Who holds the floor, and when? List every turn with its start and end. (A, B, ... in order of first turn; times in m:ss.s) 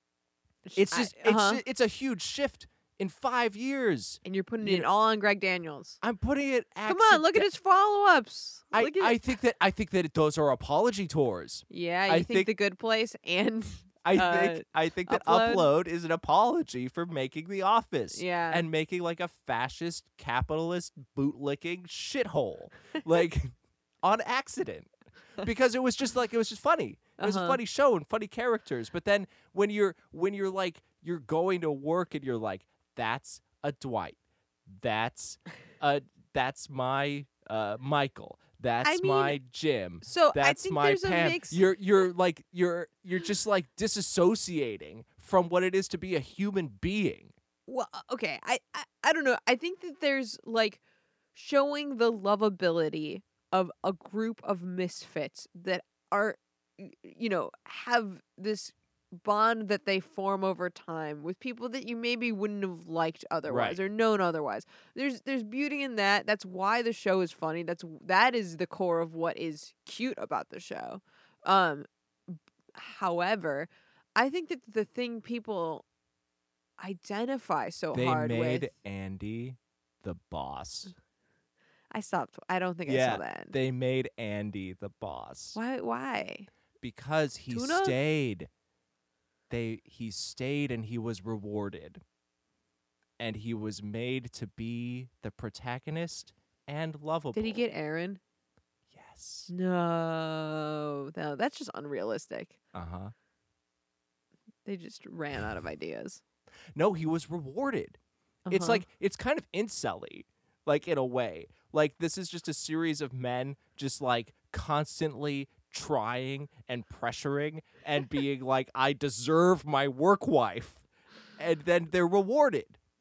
0:00.6-0:01.6 A
0:00.8-0:04.9 B
0:04.2-0:06.0 A
0:06.0-0:07.5 B
0:06.9-0:09.2 A
0:08.7-0:12.5 B
0:11.7-0:15.7 A
0:14.0-0:47.3 B
0:18.1-0:18.6 A
0:27.2-0:27.6 A
0:38.8-0:39.4 A
0:40.0-0:41.6 A
0:47.7-0:50.8 A
0:51.3-1:15.8 A
1:03.5-1:03.8 B
1:16.8-1:18.7 A
1:17.9-1:20.9 B
1:21.9-1:23.5 A
1:22.9-1:25.6 B
1:25.5-1:26.5 A
1:26.8-1:28.5 B
1:27.5-1:28.0 A
1:29.5-1:32.0 B
1:33.2-1:37.6 B
1:37.3-1:38.2 A
1:38.9-1:39.5 B
1:39.5-1:42.6 A
1:42.7-1:43.1 B
1:44.6-1:46.2 A
1:46.7-1:48.0 B
1:48.4-1:48.8 A
1:48.5-2:00.8 B
2:01.4-2:02.8 B